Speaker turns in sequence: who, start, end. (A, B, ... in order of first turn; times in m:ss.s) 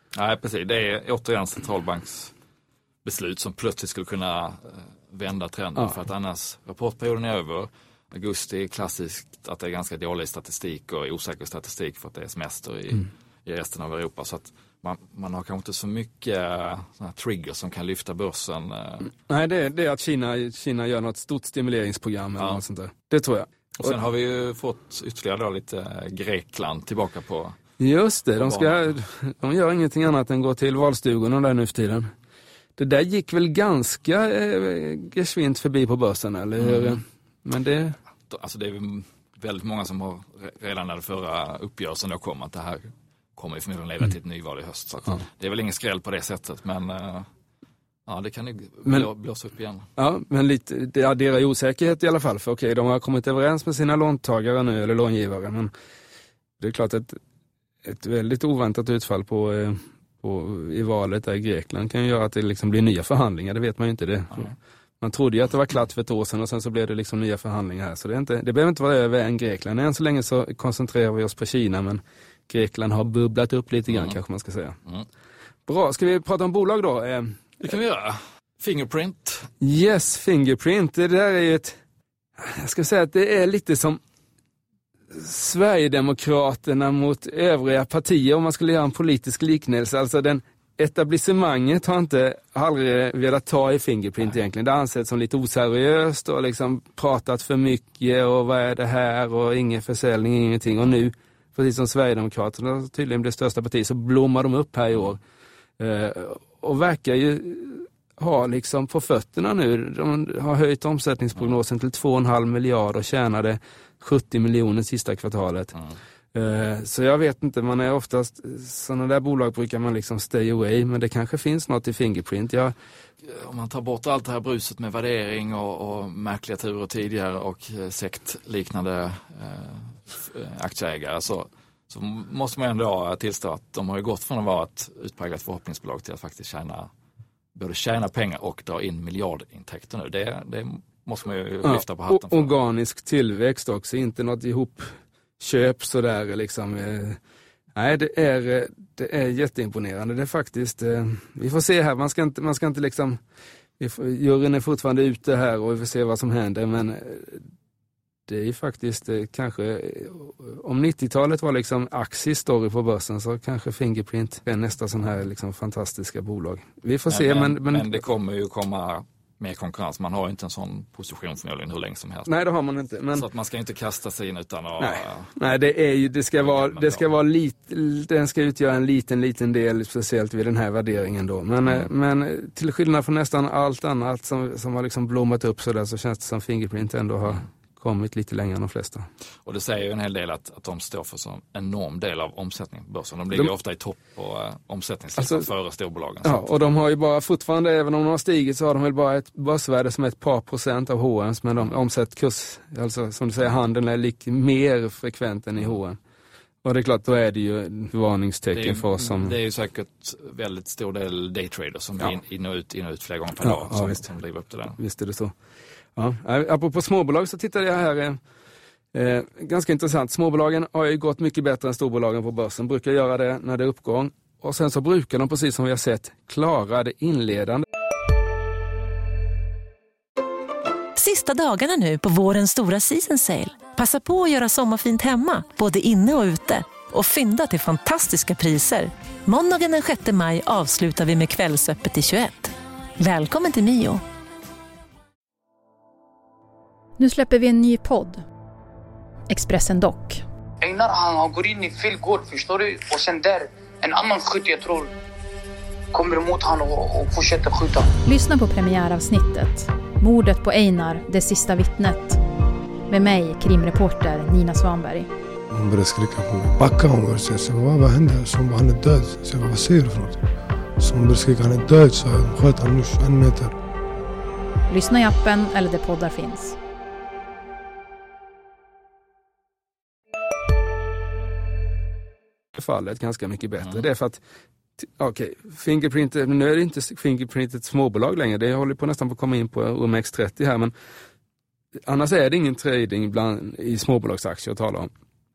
0:00.2-0:02.3 A
0:03.0-0:19.1 A
0:19.2-0:24.0 B
0:23.8-0:27.6 A
0:27.8-0:32.1 B
0:28.4-0:28.9 A
0:32.8-0:38.0 B
0:36.6-0:37.0 A
0:38.3-0:47.3 A
0:48.1-0:49.9 A
0:50.0-0:55.7 B
0:56.6-0:57.2 B
0:57.8-1:14.8 B
1:13.9-1:14.1 A
1:15.7-1:17.6 B
1:17.6-1:19.5 A
1:19.6-1:21.8 B
1:22.4-1:24.0 B
1:25.1-1:45.2 B
1:45.8-1:55.8 B
1:56.3-2:02.8 B
2:03.2-2:16.9 A
2:17.6-2:22.5 A
2:21.6-2:27.2 B
2:27.8-2:33.2 B
2:33.8-2:37.5 B
2:38.3-2:48.0 B
2:47.1-2:52.3 A
2:52.2-2:53.3 B
2:53.1-2:55.3 A
2:54.8-3:09.1 B
2:56.4-2:57.1 A
3:09.4-3:16.5 A
3:15.2-3:15.5 B
3:16.2-3:26.0 B
3:26.6-3:29.4 B
3:28.5-3:34.8 A
3:33.4-3:34.0 B
3:34.8-3:35.3 B
3:36.0-3:38.2 B
3:38.9-3:47.6 B
3:51.0-4:04.0 C
4:07.0-4:08.2 D
4:09.3-4:10.2 D
4:10.6-4:14.9 E
4:15.9-4:17.9 E
4:18.0-4:22.2 D
4:22.9-4:25.1 D
4:25.5-4:30.2 F
4:30.8-4:33.5 F
4:34.7-4:36.6 D
4:42.6-4:44.2 B
4:44.8-4:50.7 B
4:51.9-4:54.9 B